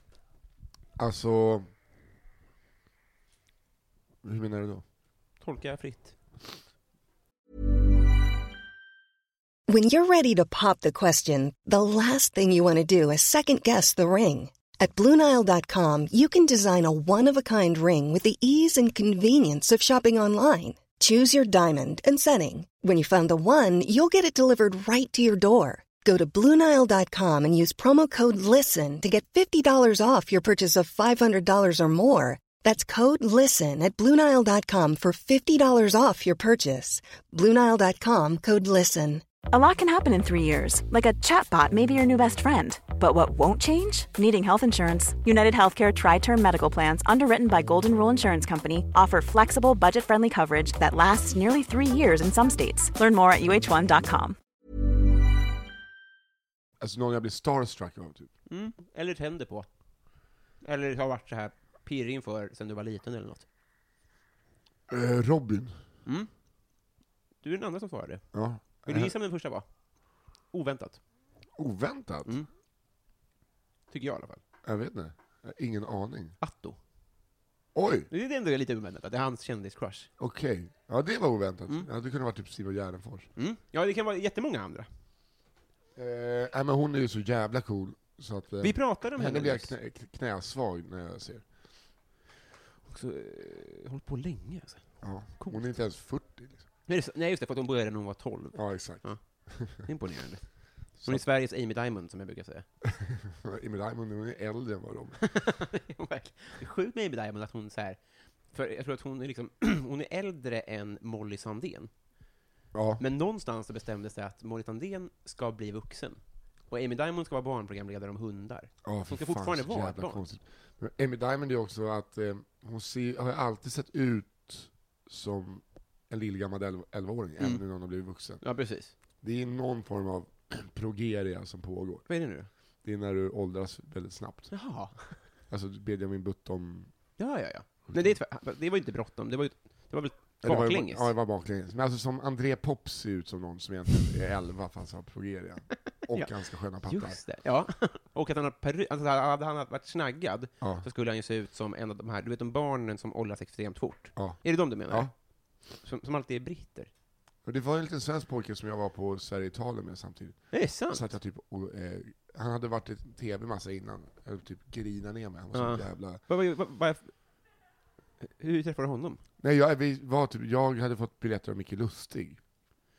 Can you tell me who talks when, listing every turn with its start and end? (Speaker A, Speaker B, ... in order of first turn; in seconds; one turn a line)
Speaker A: 1.0-1.7
Speaker A: 4.2-4.8
Speaker B: 5.4-6.2
Speaker C: 9.7-39.2
Speaker D: 39.5-54.4
Speaker A: 56.8-58.3
Speaker B: 58.5-59.7
Speaker B: 60.6-63.5
Speaker A: 64.9-65.8
Speaker B: 66.0-66.3
Speaker B: 67.4-69.7
Speaker A: 68.3-69.1
Speaker B: 70.5-71.0
Speaker A: 71.6-72.4
Speaker B: 73.9-74.4
Speaker A: 74.6-76.4
Speaker B: 76.4-76.8
Speaker A: 77.7-78.1
Speaker B: 78.1-80.1
Speaker A: 80.2-83.3
Speaker B: 83.4-84.9
Speaker A: 86.0-91.5
Speaker B: 88.6-89.8
Speaker B: 92.8-95.7
Speaker A: 95.0-96.7
Speaker B: 96.9-102.7
Speaker A: 98.5-99.8
Speaker A: 102.9-105.4
Speaker B: 105.2-111.9
Speaker A: 112.7-113.0
Speaker B: 113.0-116.2
Speaker B: 116.7-120.2
Speaker A: 118.8-128.4
Speaker B: 128.4-128.9
Speaker A: 129.2-132.1
Speaker B: 132.1-132.5
Speaker A: 132.8-134.6
Speaker B: 134.5-135.2
Speaker A: 135.5-136.9
Speaker B: 137.2-141.1
Speaker A: 137.9-138.2
Speaker A: 140.4-147.2
Speaker B: 146.1-156.9
Speaker A: 150.6-150.9
Speaker A: 154.2-155.1
Speaker A: 157.4-166.2
Speaker B: 160.5-161.1
Speaker B: 165.5-167.2
Speaker B: 168.2-169.2
Speaker A: 169.4-172.4